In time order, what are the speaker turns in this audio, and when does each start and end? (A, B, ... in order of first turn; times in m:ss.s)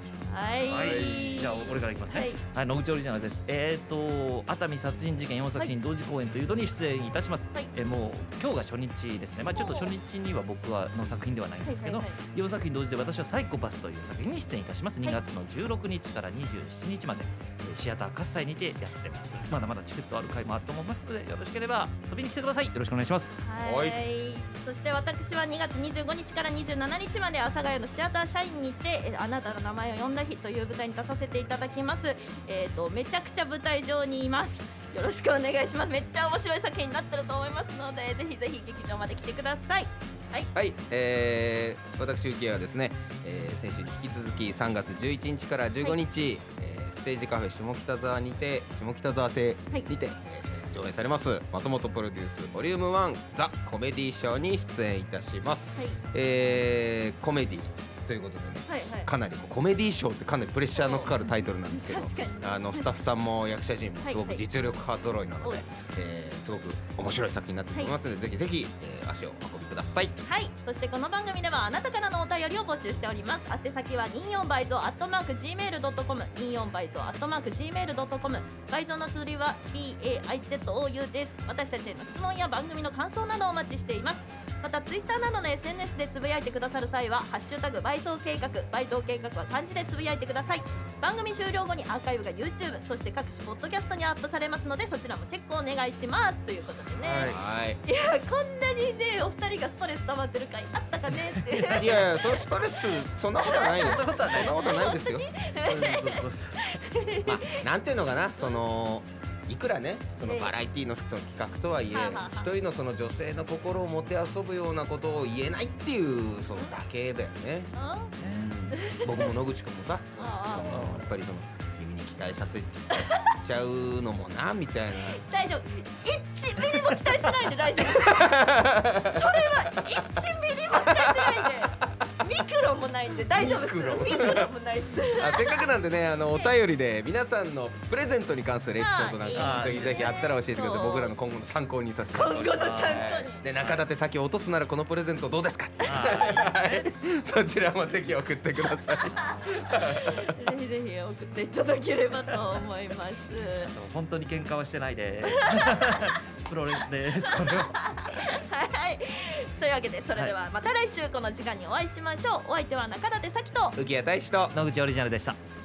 0:00.3-0:02.4 A
0:00.7-0:23.4 B
0:07.4-0:07.7 A
0:09.5-0:09.9 A
0:11.6-0:12.2 A
0:23.4-0:40.5 A
0:23.6-0:24.0 C
0:40.5-1:10.1 C
0:58.6-0:59.1 A
1:00.7-1:02.9 A
1:04.0-1:04.4 A
1:10.2-1:42.0 A
1:37.0-1:37.8 C
1:41.4-1:42.1 B
1:41.8-1:45.3 C
1:43.4-1:47.6 A
1:43.6-1:44.8 B
1:45.5-1:46.9 B
1:47.2-2:05.2 C
1:50.2-1:50.5 A
1:51.9-1:52.5 A
1:57.7-1:58.1 A
1:58.2-1:58.8 B
1:58.7-1:59.3 A
2:00.2-2:00.8 A
2:00.6-2:01.1 B
2:02.9-2:03.3 A
2:05.1-2:08.5 A
2:06.7-2:09.9 C
2:09.0-2:15.7 A
2:10.7-2:12.0 C
2:13.3-2:14.5 C
2:15.1-2:30.3 C
2:18.7-2:21.1 A
2:19.3-2:20.1 B
2:22.1-2:23.4 A
2:22.5-2:23.8 B
2:25.8-2:26.9 B
2:29.0-2:29.9 B
2:29.1-2:33.7 A
2:33.6-2:38.3 B
2:35.4-2:36.2 A
2:37.3-2:43.8 A
2:43.8-2:44.6 C
2:44.5-2:45.4 B